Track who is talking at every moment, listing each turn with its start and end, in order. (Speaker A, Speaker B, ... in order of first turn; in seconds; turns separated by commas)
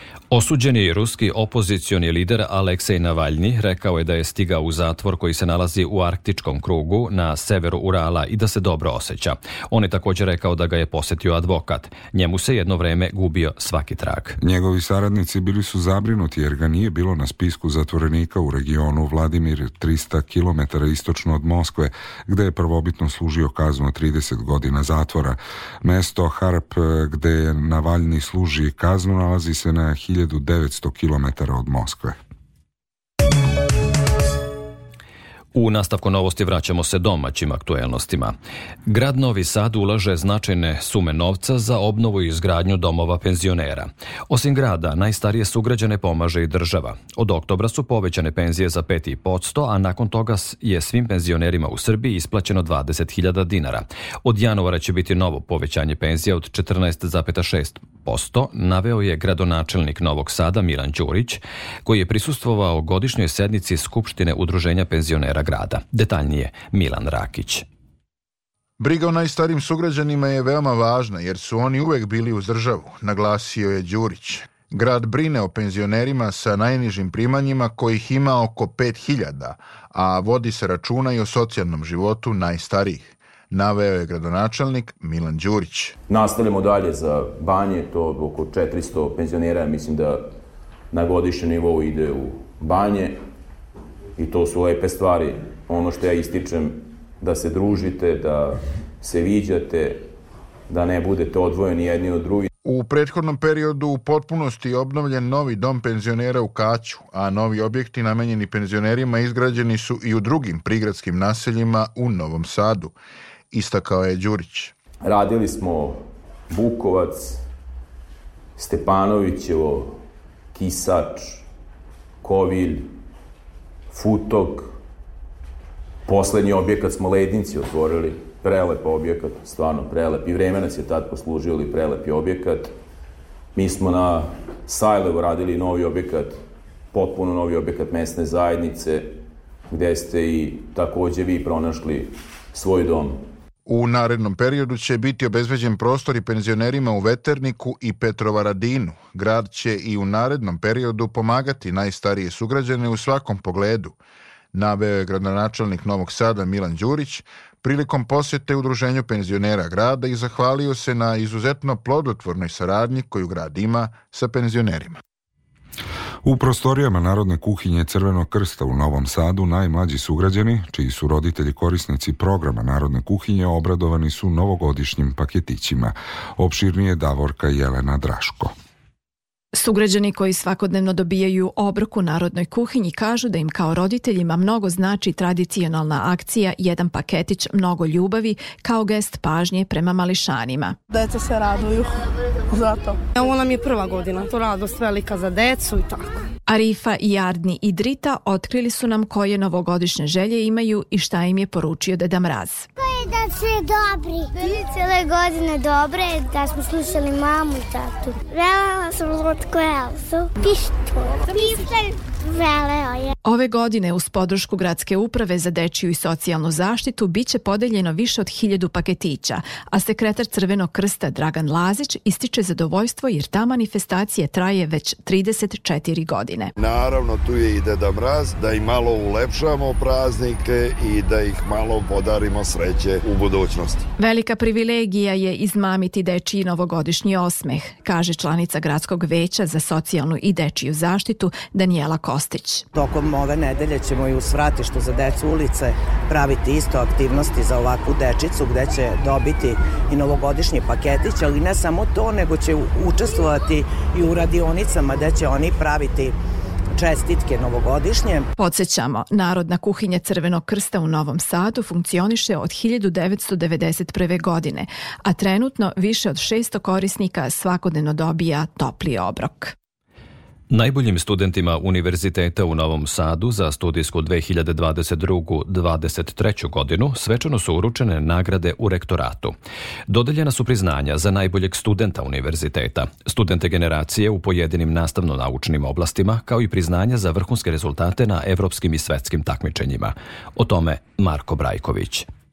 Speaker A: 0.3-14.4, Speaker B: 14.4-32.2, Speaker A: 35.5-38.4, Speaker A: 38.9-67.7, Speaker C: 68.8-86.0, Speaker D: 86.1-90.3, Speaker D: 90.9-93.2, Speaker D: 94.2-100.1, Speaker D: 100.7-102.5, Speaker C: 102.7-113.0, Speaker C: 113.5-114.7, Speaker D: 115.0-117.4, Speaker D: 118.6-120.0, Speaker D: 120.5-121.5, Speaker D: 122.2-122.9, Speaker D: 123.9-124.7, Speaker D: 126.1-132.8, Speaker D: 133.6-136.4, Speaker D: 136.9-143.2, Speaker C: 143.7-154.0, Speaker C: 154.5-165.0, Speaker B: 166.2-178.5, Speaker E: 179.5-190.8, Speaker F: 190.9-191.8, Speaker F: 192.5-196.1, Speaker E: 196.5-202.7, Speaker G: 202.8-213.2, Speaker E: 213.2-226.5, Speaker H: 226.6-233.8, Speaker E: 234.0-242.7, Speaker I: 242.7-256.1, Speaker I: 256.8-258.3, Speaker E: 258.4-269.5, Speaker A: 270.5-279.4, Speaker A: 279.9-292.1